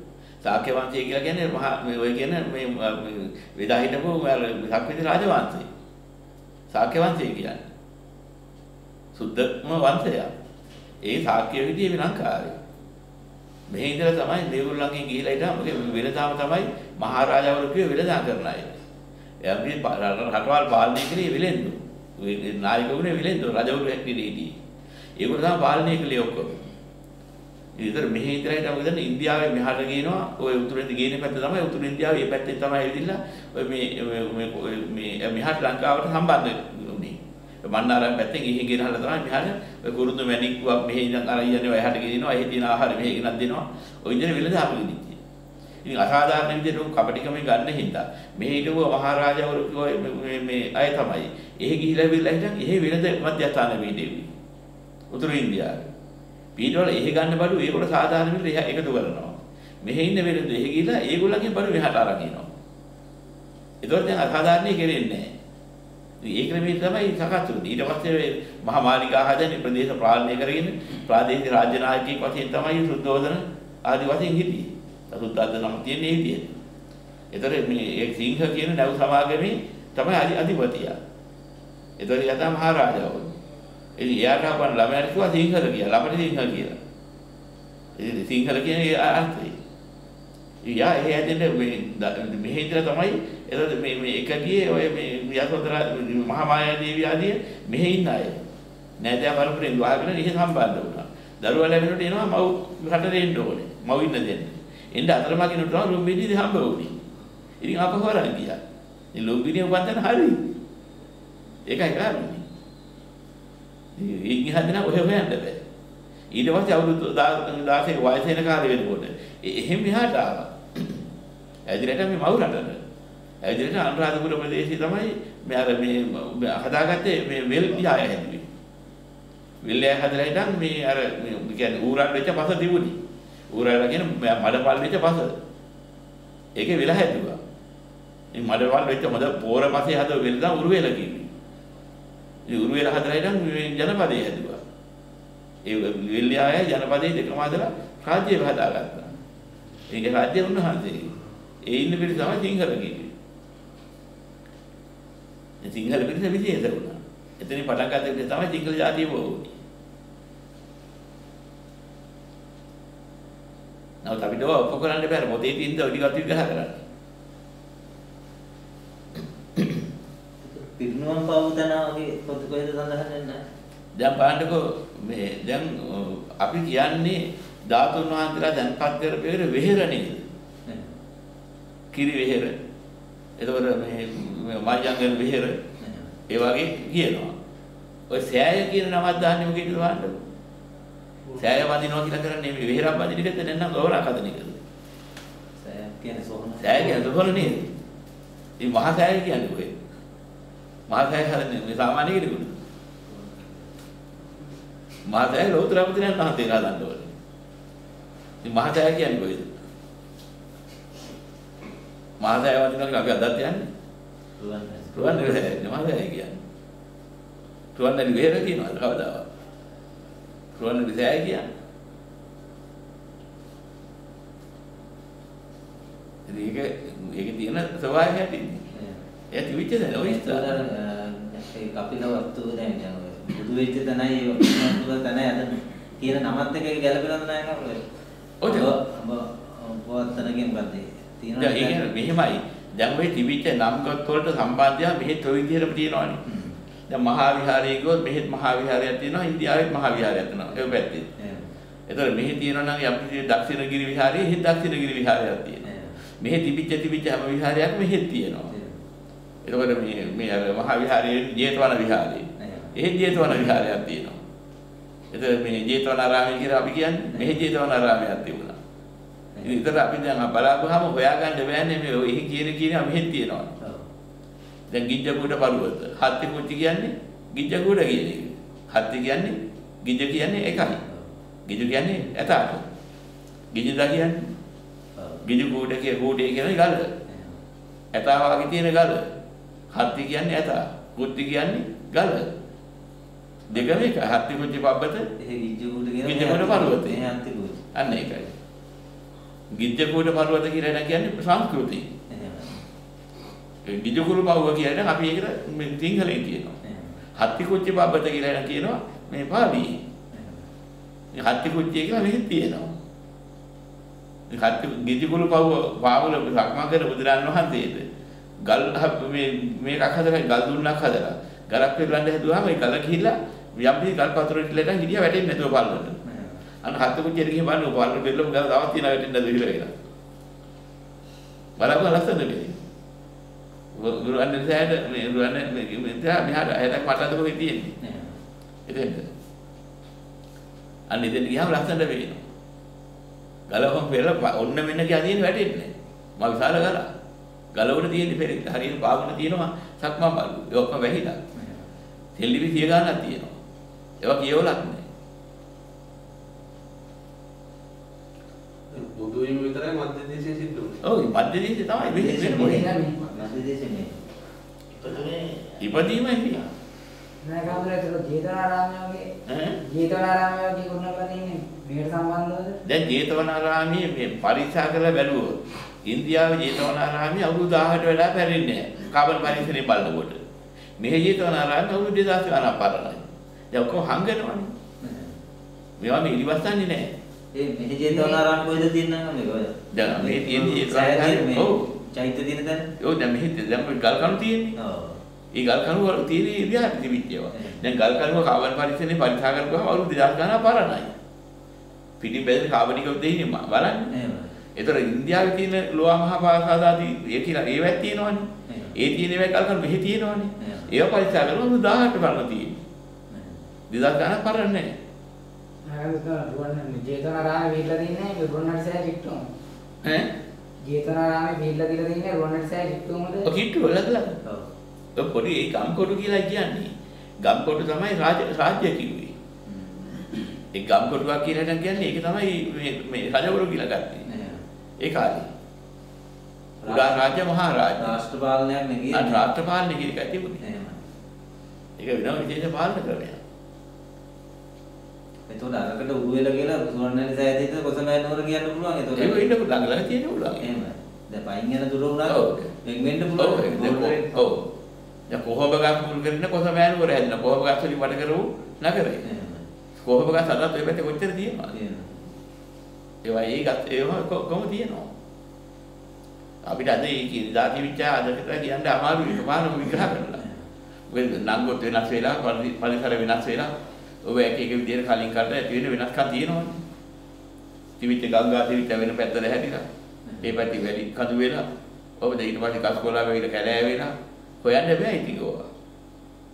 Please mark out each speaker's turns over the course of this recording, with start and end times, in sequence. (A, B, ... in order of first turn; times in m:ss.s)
0:00.4-0:05.7 A
0:06.7-0:07.7 A
0:09.1-0:10.3 A
0:11.0-0:12.6 A
0:13.7-0:18.7 A
0:19.4-0:24.6 A
0:25.2-0:26.6 A
0:27.8-0:45.2 A
0:45.8-0:54.3 A
0:55.1-0:55.8 A
0:56.6-1:02.5 A
1:03.8-1:05.3 A
1:06.2-1:16.5 A
1:17.3-1:21.0 A
1:22.0-1:23.3 A
1:24.0-1:26.8 A
1:28.0-1:29.6 A
1:30.6-1:38.4 A
1:39.0-1:47.0 A
1:47.6-1:48.6 A
1:49.1-1:50.5 A
1:51.6-1:52.4 A
1:53.9-1:55.6 A
1:56.3-2:01.1 A
2:01.7-2:02.8 A
2:03.4-2:08.4 A
2:09.6-2:13.0 A
2:13.5-2:15.4 A
2:16.6-2:17.4 A
2:18.3-2:21.3 A
2:22.4-2:24.6 A
2:25.6-2:29.1 A
2:29.9-2:33.1 A
2:35.6-2:39.6 A
2:44.0-2:46.8 A
2:49.6-2:49.8 A
2:50.4-2:53.4 B
2:54.0-3:00.2 A
3:00.7-3:00.9 B
3:01.9-3:02.5 A
3:03.4-3:05.6 A
3:05.8-3:06.1 B
3:06.3-3:07.3 A
3:08.1-3:10.2 A
3:11.4-3:14.6 A
3:15.6-3:17.6 B
3:16.6-3:17.7 A
3:18.6-3:19.8 A
3:20.9-3:22.6 A
3:23.1-3:23.6 B
3:25.0-3:27.1 A
3:28.4-3:29.5 A
3:32.2-3:33.7 A
3:34.4-3:35.6 B
3:34.9-3:36.4 A
3:37.7-3:39.2 A
3:40.5-3:41.4 A
3:46.3-3:48.7 A
3:48.7-3:49.0 B
3:49.3-3:50.6 A
3:49.9-3:57.8 B
3:58.4-3:58.8 A
3:58.4-4:01.8 B
4:01.4-4:06.2 A
4:06.2-4:06.6 B
4:06.9-4:11.1 A
4:11.2-4:11.5 B
4:11.9-4:15.7 A
4:15.6-4:16.0 B
4:16.2-4:18.5 A
4:18.5-4:18.8 B
4:19.4-4:24.2 A
4:22.4-4:23.6 B
4:25.1-4:28.6 A
4:29.4-4:29.6 B
4:29.4-4:33.5 A
4:34.7-4:40.8 A
4:40.6-4:41.1 B
4:41.4-4:42.6 A
4:43.5-4:44.3 A
4:45.0-4:45.2 B
4:45.2-4:46.9 A
4:47.1-4:47.4 B
4:47.9-4:49.1 A
4:49.7-4:52.3 A
4:53.5-4:55.0 A
4:55.2-4:57.6 B
4:56.0-4:57.1 A
4:57.7-4:58.3 A
4:59.5-5:01.9 A
5:02.1-5:02.6 B
5:03.6-5:06.6 A
5:06.6-5:07.0 B
5:07.2-5:09.8 A
5:10.1-5:10.5 B
5:11.1-5:12.8 A
5:14.3-5:17.8 A
5:18.4-5:26.0 A
5:26.1-5:26.4 B
5:26.6-5:29.7 A
5:31.6-5:32.6 A
5:33.7-5:37.8 A
5:37.8-5:38.2 B
5:38.7-5:39.1 A
5:40.9-5:42.2 A
5:43.5-5:46.9 A
5:47.5-5:51.2 A
5:51.4-5:51.7 B
5:52.2-5:53.4 A
5:54.0-5:54.8 A
5:58.7-6:00.8 C
6:00.8-6:02.7 A
6:01.8-6:04.0 B
6:02.2-6:03.0 D
6:04.8-6:06.4 A
6:07.2-6:09.1 D
6:09.2-6:09.6 A
6:09.6-6:12.6 D
6:12.6-6:20.2 A
6:20.8-6:24.5 A
6:24.8-6:25.2 B
6:25.8-6:26.9 A
6:27.3-6:32.7 B
6:27.9-6:28.2 D
6:29.7-6:31.7 A
6:32.8-6:34.6 A
6:34.6-6:35.0 B
6:35.3-6:40.9 A
6:37.3-6:37.6 B
6:42.0-6:43.9 A
6:43.9-6:44.4 B
6:44.6-6:52.6 A
6:48.5-6:48.8 B
6:50.4-6:50.7 B
6:53.1-6:53.4 B
6:53.7-6:54.7 A
6:55.7-6:59.2 D
6:59.8-7:00.1 A
7:00.6-7:03.3 D
7:03.2-7:04.2 A
7:05.0-7:09.1 A
7:09.4-7:10.2 B
7:10.5-7:14.1 A
7:14.1-7:14.4 B
7:14.8-7:15.3 A
7:16.6-7:17.2 B
7:16.6-7:18.0 A
7:17.8-7:19.2 B
7:18.9-7:20.4 A
7:20.4-7:20.8 B
7:21.8-7:23.2 A
7:25.3-7:29.3 B
7:29.0-7:30.5 A
7:30.4-7:34.1 B
7:32.0-7:32.5 A
7:33.2-7:34.5 A
7:35.1-7:39.0 A
7:39.0-7:39.5 B
7:39.8-7:41.5 A
7:41.5-7:42.0 B
7:43.0-7:44.9 A
7:46.4-7:50.2 A
7:50.2-7:50.5 B
7:50.9-7:56.6 A
7:57.8-7:59.7 A
8:00.0-8:00.4 B
8:00.2-8:01.5 A
8:02.0-8:05.5 A